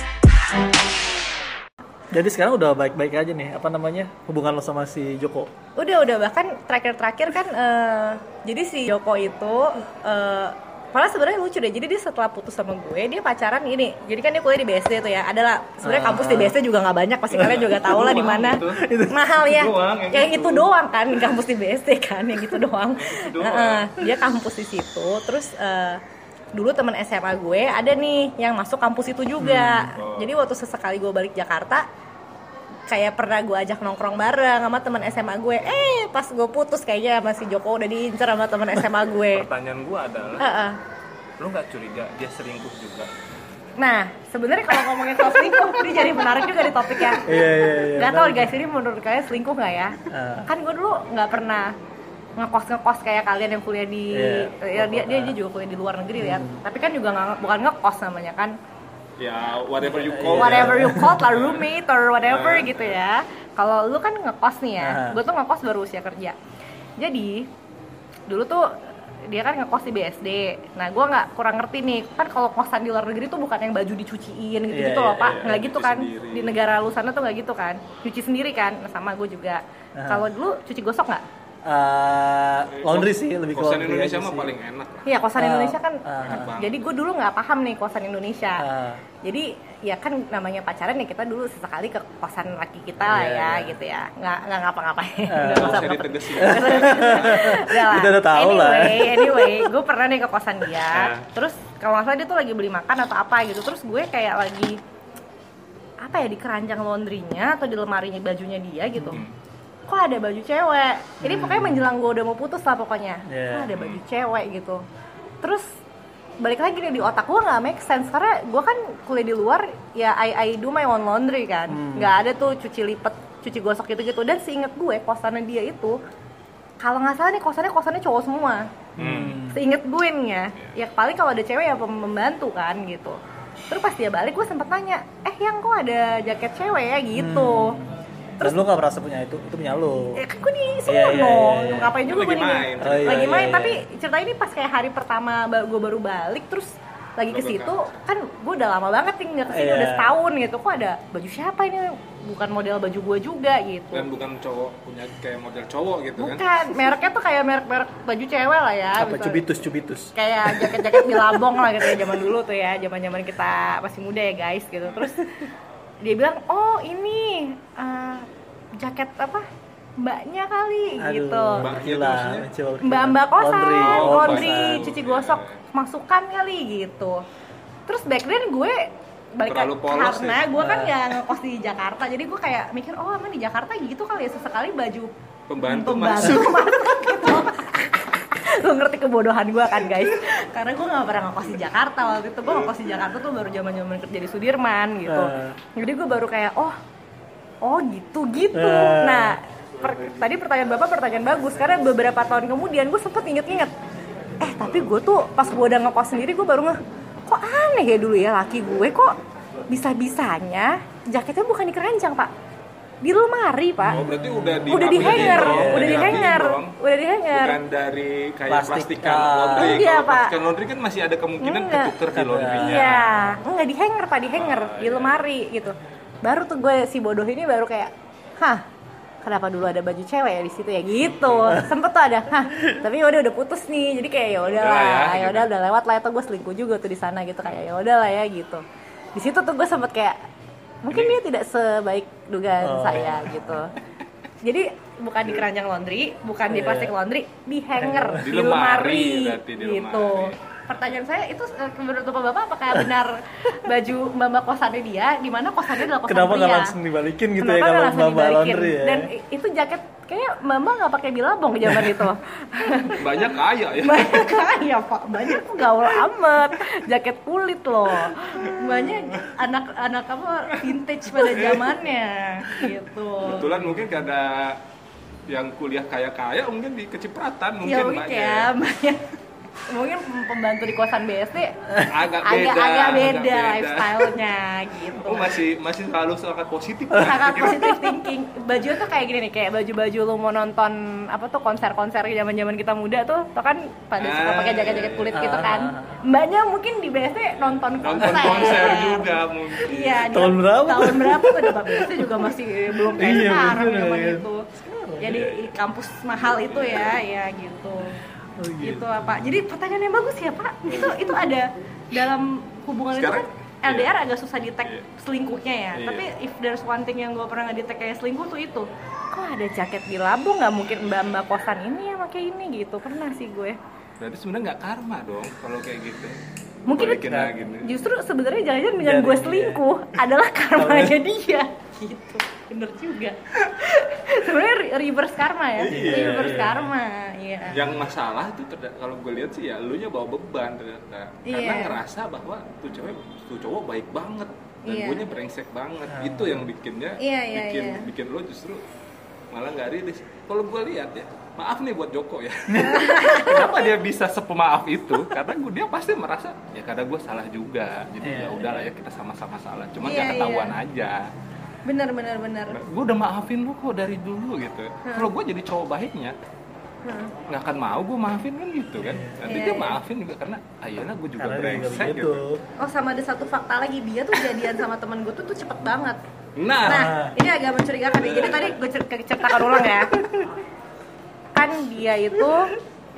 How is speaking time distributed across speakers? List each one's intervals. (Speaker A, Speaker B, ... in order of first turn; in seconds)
Speaker A: 2.1-5.5, 15.8-16.6, 18.7-19.5, 29.4-29.9, 47.2-48.6, 50.1-50.5, 54.1-55.4, 56.2-56.6, 59.8-61.2, 64.8-65.2, 74.7-75.4, 80.0-80.3, 81.6-84.5, 85.3-86.5, 88.6-89.0, 93.0-93.8, 95.3-99.7, 111.2-111.9, 113.3-113.7, 121.7-122.2, 129.0-129.6, 137.1-140.2, 140.9-142.0, 142.8-143.8, 149.5-150.2, 159.0-162.1, 171.0-174.9, 180.6-181.0, 195.1-195.6, 198.5-199.4, 213.9-216.3, 218.5-219.8, 222.1-223.2, 242.6-243.7, 246.5-246.9, 247.8-248.3, 255.9-259.1, 295.1-296.0, 298.0-298.5, 300.0-305.2, 308.4-308.9, 327.0-327.4, 328.8-329.6, 330.6-331.0, 335.7-336.7, 345.9-346.5, 352.5-353.1, 358.0-358.5, 368.8-369.2, 371.2-372.4, 376.6-377.2
Speaker B: 5.8-26.0, 26.5-31.9, 32.9-39.5, 40.4-40.8, 43.8-47.3, 47.9-51.7, 52.4-58.5, 60.3-66.3, 67.0-67.5, 68.3-68.7, 69.3-81.2, 85.0-88.6, 89.2-104.8, 106.0-109.2, 109.9-114.8, 115.4-115.7, 116.4-126.0, 126.8-128.6, 129.5-133.2, 133.7-137.8, 140.2-154.1, 156.2-159.4, 160.1-165.4, 166.0-168.2, 168.8-169.4, 170.0-171.7, 172.8-177.2, 177.8-178.8, 179.3-196.8, 197.6-203.7, 204.4-209.1, 209.7-212.3, 213.0-214.0, 214.7-217.6, 219.5-220.3, 221.4-221.9, 222.6-228.6, 229.2-238.6, 239.1-240.2, 240.8-243.7, 244.4-256.7, 257.4-273.5, 277.6-279.0, 279.7-281.6, 282.2-285.3, 286.9-299.1, 299.6-304.4, 305.0-308.0, 308.6-323.6, 326.7-337.7, 341.2-341.8, 344.6-345.1, 347.0-347.9, 352.6-353.6, 359.8-360.6, 361.6-362.6, 364.8-365.1, 366.8-367.1, 369.2-369.8, 372.6-376.0, 376.6-379.9, 381.3-382.5
Speaker C: 17.3-18.8, 19.4-20.7, 23.0-24.0, 29.9-30.4, 39.3-40.5, 41.4-43.1, 59.2-61.7, 62.2-63.0, 75.2-76.6, 82.7-85.1, 86.2-86.9, 95.4-97.6, 100.9-101.3, 113.7-114.0, 129.0-129.4, 142.0-143.4, 147.3-147.9, 153.9-156.5, 171.6-172.5, 173.8-175.6, 179.4-180.5, 185.5-187.4, 213.9-216.8, 217.3-223.1, 224.3-225.3, 234.4-235.5, 240.9-241.2, 248.2-250.4, 262.9-264.4, 268.4-268.9, 271.2-271.6, 273.2-274.6, 275.3-278.5, 281.8-284.1, 284.9-287.8, 294.0-295.4, 297.8-300.1, 305.1-305.5, 306.3-307.0, 310.6-311.1, 312.9-314.0, 314.6-314.9, 315.7-316.1, 324.0-326.2, 326.7-327.7, 335.6-336.5, 337.5-348.6, 349.3-361.1, 362.5-366.1, 367.3-372.2, 376.4-376.9, 377.9-378.6, 379.4-380.3